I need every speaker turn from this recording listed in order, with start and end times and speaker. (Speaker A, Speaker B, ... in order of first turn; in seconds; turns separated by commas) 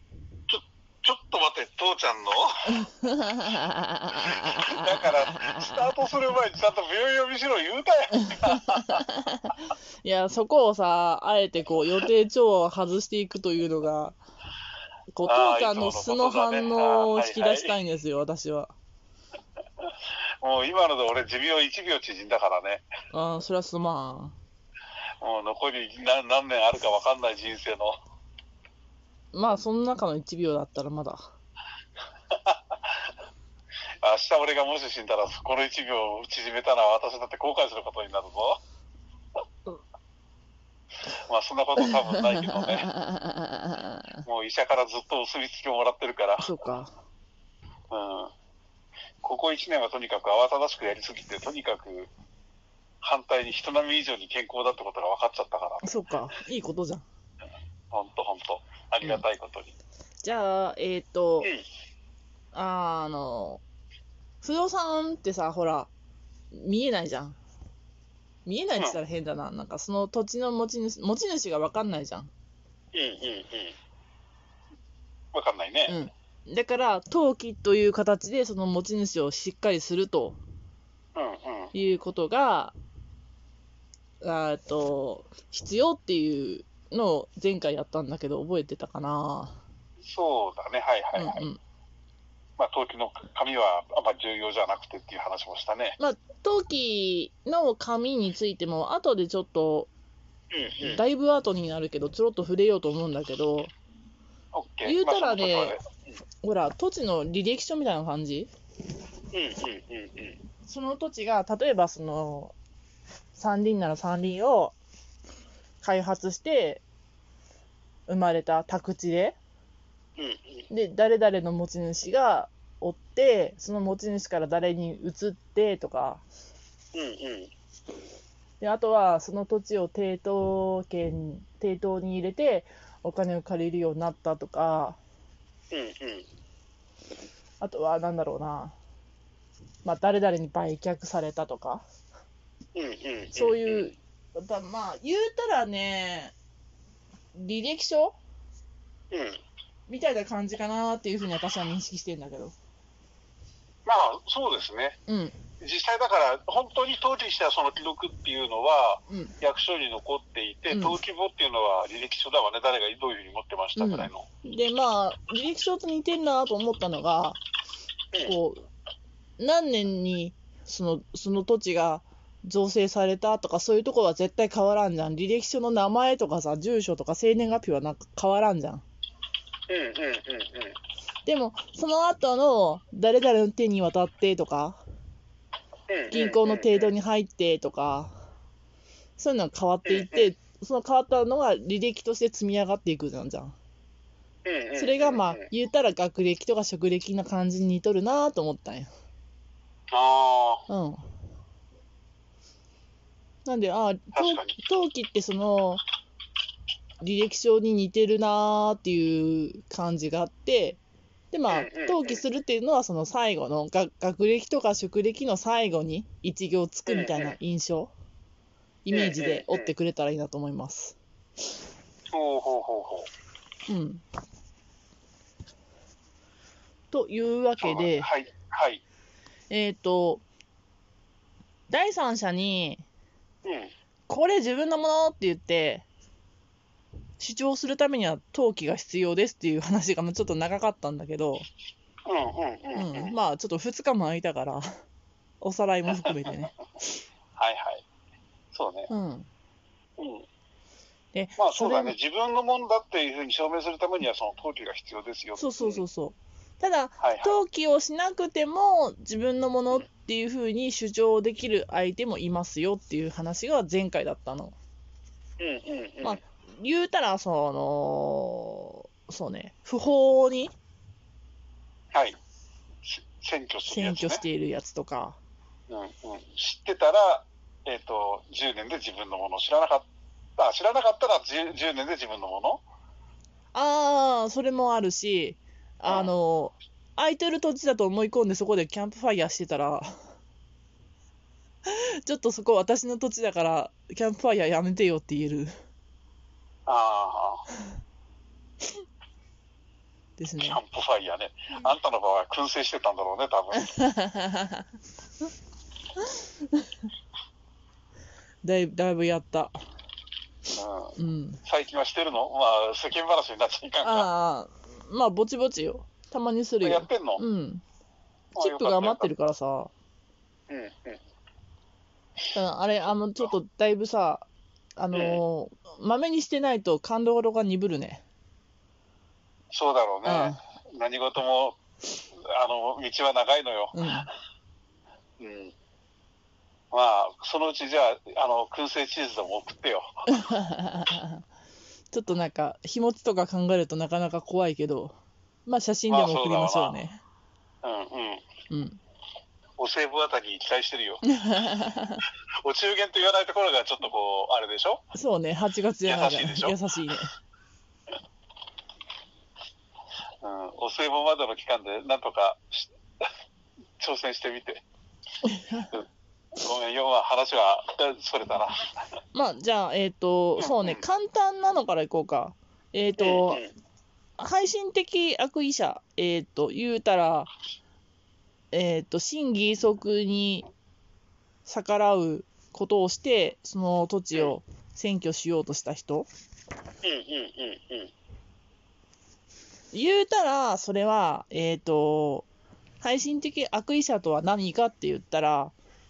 Speaker A: 0.5-2.7, Speaker B: 2.7-4.8, Speaker A: 4.4-9.0, Speaker B: 5.3-5.6, Speaker B: 8.9-14.2, Speaker B: 15.1-18.7, Speaker A: 15.2-17.7, Speaker A: 20.4-22.8, Speaker B: 23.1-24.3, Speaker A: 25.2-27.9, Speaker B: 29.3-31.3, Speaker A: 32.3-32.7, Speaker A: 34.0-38.6, Speaker A: 41.3-42.9, Speaker B: 41.8-44.2, Speaker A: 44.2-46.5, Speaker B: 46.4-46.9, Speaker A: 47.9-48.3, Speaker A: 49.2-52.1, Speaker A: 53.0-55.9, Speaker B: 55.8-57.0, Speaker A: 57.9-59.7, Speaker B: 60.2-61.5, Speaker B: 62.5-63.6, Speaker B: 64.4-65.9, Speaker B: 66.5-67.4, Speaker B: 68.4-72.3, Speaker A: 72.9-73.7, Speaker A: 75.3-76.0, Speaker B: 75.9-80.4, Speaker A: 81.1-81.7, Speaker B: 81.7-82.7, Speaker B: 84.2-89.6, Speaker A: 90.0-91.5, Speaker B: 91.2-91.6, Speaker A: 92.6-96.0, Speaker B: 96.0-99.9, Speaker A: 100.5-101.0, Speaker B: 100.8-103.7, Speaker A: 104.5-106.0, Speaker B: 104.8-105.8, Speaker B: 106.4-108.5, Speaker A: 109.3-110.4, Speaker B: 110.6-112.5, Speaker B: 113.3-114.7, Speaker B: 115.8-116.8, Speaker B: 118.1-119.4, Speaker A: 120.2-120.6, Speaker B: 120.7-126.2, Speaker A: 126.9-127.5, Speaker B: 128.6-135.0, Speaker A: 135.7-136.3, Speaker B: 137.6-138.8, Speaker B: 139.8-141.8, Speaker A: 142.7-143.9, Speaker B: 143.3-146.3, Speaker B: 147.3-148.2, Speaker A: 149.1-149.4, Speaker B: 149.9-152.5, Speaker A: 153.8-155.0, Speaker B: 155.1-155.3, Speaker A: 155.6-164.2, Speaker B: 159.1-159.3, Speaker B: 160.7-161.0, Speaker B: 163.8-167.4, Speaker B: 168.2-168.7, Speaker B: 169.4-178.8, Speaker A: 179.7-180.8, Speaker B: 181.2-184.8, Speaker A: 185.9-186.9, Speaker B: 186.1-188.1, Speaker B: 189.2-193.5, Speaker A: 189.8-190.3, Speaker A: 194.4-195.4, Speaker B: 194.8-198.9, Speaker A: 199.9-200.7, Speaker B: 200.7-201.0, Speaker B: 203.4-205.8, Speaker A: 204.1-204.5, Speaker B: 207.0-210.8, Speaker B: 211.3-217.9, Speaker A: 211.5-212.2, Speaker A: 216.9-217.3, Speaker B: 218.8-221.0, Speaker A: 218.9-219.7, Speaker A: 222.1-223.1, Speaker B: 223.7-224.0, Speaker B: 226.9-228.1, Speaker A: 227.6-228.8, Speaker B: 229.5-230.2, Speaker B: 231.7-232.8, Speaker A: 233.4-233.7, Speaker B: 234.1-235.8, Speaker B: 237.2-241.5, Speaker A: 242.1-243.1, Speaker B: 242.8-244.7, Speaker B: 245.4-247.0, Speaker A: 247.3-247.8, Speaker A: 248.5-248.9, Speaker B: 248.9-249.3, Speaker A: 250.0-250.2, Speaker B: 251.1-251.9, Speaker A: 251.4-255.8, Speaker B: 255.4-264.6, Speaker A: 257.0-257.4, Speaker A: 265.4-266.2, Speaker B: 266.0-270.5, Speaker A: 272.8-274.2, Speaker B: 273.7-275.2, Speaker A: 275.7-282.6, Speaker B: 283.5-289.9, Speaker A: 285.9-286.1, Speaker B: 291.7-295.5, Speaker A: 296.6-297.4, Speaker B: 300.2-300.6, Speaker A: 300.4-303.7, Speaker B: 303.6-304.6, Speaker B: 306.2-306.6, Speaker B: 308.4-309.6, Speaker A: 310.5-314.1, Speaker B: 311.0-311.4, Speaker B: 313.8-317.6, Speaker A: 316.6-317.2, Speaker A: 318.3-319.1, Speaker B: 318.4-319.7, Speaker A: 320.5-321.0, Speaker B: 322.3-328.0, Speaker A: 324.9-325.2, Speaker A: 329.5-331.6, Speaker B: 330.0-330.4, Speaker A: 332.3-334.1, Speaker B: 333.7-334.1, Speaker A: 335.2-335.5, Speaker A: 336.7-339.9, Speaker B: 340.1-341.2, Speaker B: 341.9-347.0, Speaker A: 345.9-346.8, Speaker A: 347.6-348.2, Speaker B: 348.5-348.8, Speaker A: 349.6-351.0, Speaker B: 351.1-352.0, Speaker A: 352.4-354.8, Speaker B: 354.9-357.1, Speaker A: 355.8-356.6, Speaker A: 360.2-363.0, Speaker A: 363.8-364.6, Speaker B: 365.2-365.7, Speaker A: 366.4-368.8, Speaker B: 369.1-373.4, Speaker A: 370.4-370.8, Speaker A: 373.0-373.5, Speaker B: 374.2-377.3, Speaker B: 378.5-380.5, Speaker B: 381.4-386.1, Speaker A: 386.8-387.9, Speaker B: 389.7-392.3, Speaker B: 392.8-395.5